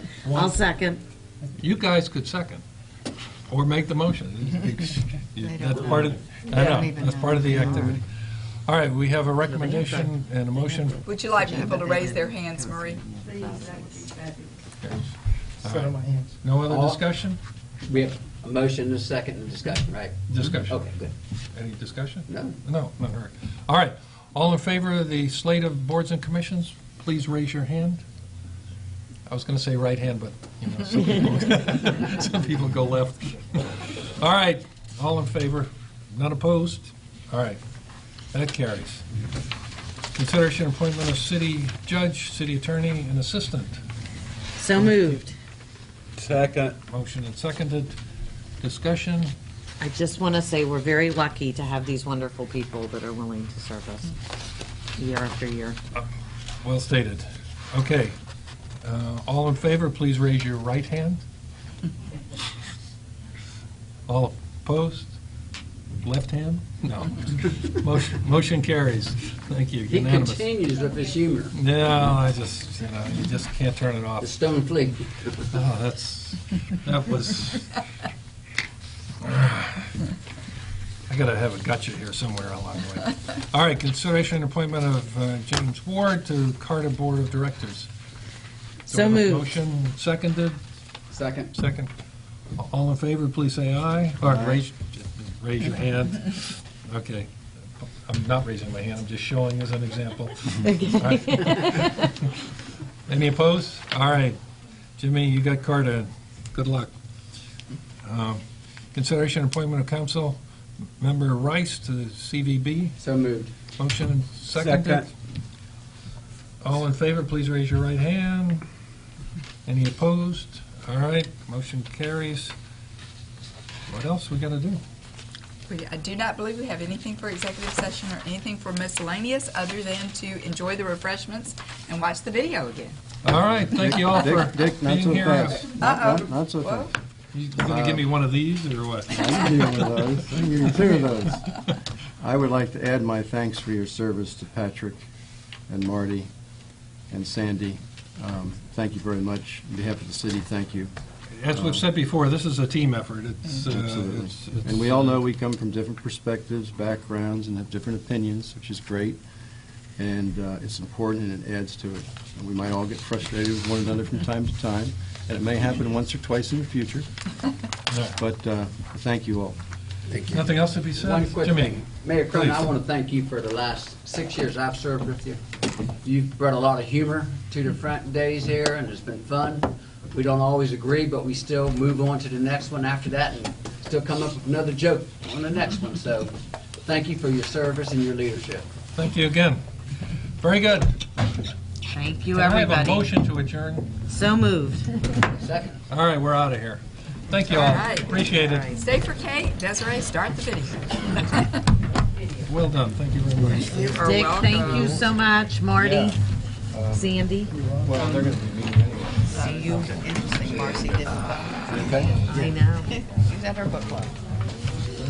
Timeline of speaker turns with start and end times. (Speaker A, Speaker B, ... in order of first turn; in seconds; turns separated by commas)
Speaker A: 0.2-0.6, Speaker B: 0.3-1.0, Speaker A: 1.6-2.6, Speaker A: 3.5-8.0, Speaker C: 5.4-8.0, Speaker A: 8.7-11.0, Speaker B: 9.5-9.9, Speaker C: 10.9-14.3, Speaker D: 11.0-13.0, Speaker A: 14.8-17.4, Speaker E: 16.7-17.0, Speaker E: 17.8-21.1, Speaker A: 20.3-20.8, Speaker A: 21.5-28.0, Speaker E: 22.3-22.6, Speaker A: 29.2-37.6, Speaker A: 38.3-39.0, Speaker A: 40.1-43.8, Speaker B: 44.6-45.3, Speaker A: 44.7-45.2, Speaker E: 46.1-46.8, Speaker A: 46.9-48.0, Speaker A: 48.6-49.3, Speaker B: 49.8-54.1, Speaker B: 55.0-55.8, Speaker A: 56.6-58.2, Speaker A: 58.8-61.2, Speaker A: 64.1-65.1, Speaker A: 66.0-70.5, Speaker E: 69.9-71.5, Speaker A: 71.5-74.4, Speaker E: 74.2-75.4, Speaker A: 75.5-77.8, Speaker A: 79.2-79.9, Speaker A: 81.1-87.9, Speaker A: 88.9-90.6, Speaker B: 88.9-89.5, Speaker E: 91.1-91.5, Speaker A: 91.5-91.9, Speaker A: 92.5-97.3, Speaker F: 94.2-94.6, Speaker A: 97.8-102.2, Speaker B: 100.5-102.1, Speaker A: 103.1-104.4, Speaker A: 105.0-106.9, Speaker A: 108.0-108.4, Speaker A: 108.9-110.4, Speaker A: 111.0-113.0, Speaker E: 113.0-113.5, Speaker A: 113.8-115.1, Speaker E: 114.5-115.1, Speaker A: 116.6-118.6, Speaker A: 119.7-122.5, Speaker A: 123.9-124.8, Speaker D: 125.7-133.0, Speaker A: 133.2-135.8, Speaker F: 133.5-136.9, Speaker D: 135.8-136.9, Speaker A: 137.3-140.2, Speaker F: 137.6-138.1, Speaker F: 139.1-141.5, Speaker F: 142.2-145.0, Speaker F: 145.7-146.3, Speaker F: 147.1-150.9, Speaker A: 151.3-155.2, Speaker F: 151.5-151.9, Speaker F: 153.6-159.2, Speaker F: 160.0-167.1, Speaker A: 167.9-168.2, Speaker F: 168.2-169.6, Speaker E: 170.1-175.4, Speaker A: 170.3-172.7, Speaker E: 176.0-188.7, Speaker A: 188.9-189.6, Speaker A: 190.4-191.0, Speaker B: 191.9-193.1, Speaker A: 192.3-193.9, Speaker B: 194.1-194.9, Speaker E: 195.4-195.8, Speaker A: 195.9-198.7, Speaker D: 197.4-201.7, Speaker B: 198.1-198.8, Speaker A: 202.5-205.0, Speaker D: 203.6-205.0, Speaker B: 204.0-206.2, Speaker F: 205.8-206.1, Speaker F: 206.7-207.1, Speaker B: 206.9-207.5, Speaker A: 207.7-208.3, Speaker F: 207.8-209.8, Speaker B: 209.3-210.0, Speaker C: 209.4-214.1, Speaker F: 210.4-210.9, Speaker F: 211.6-212.2, Speaker B: 212.3-212.9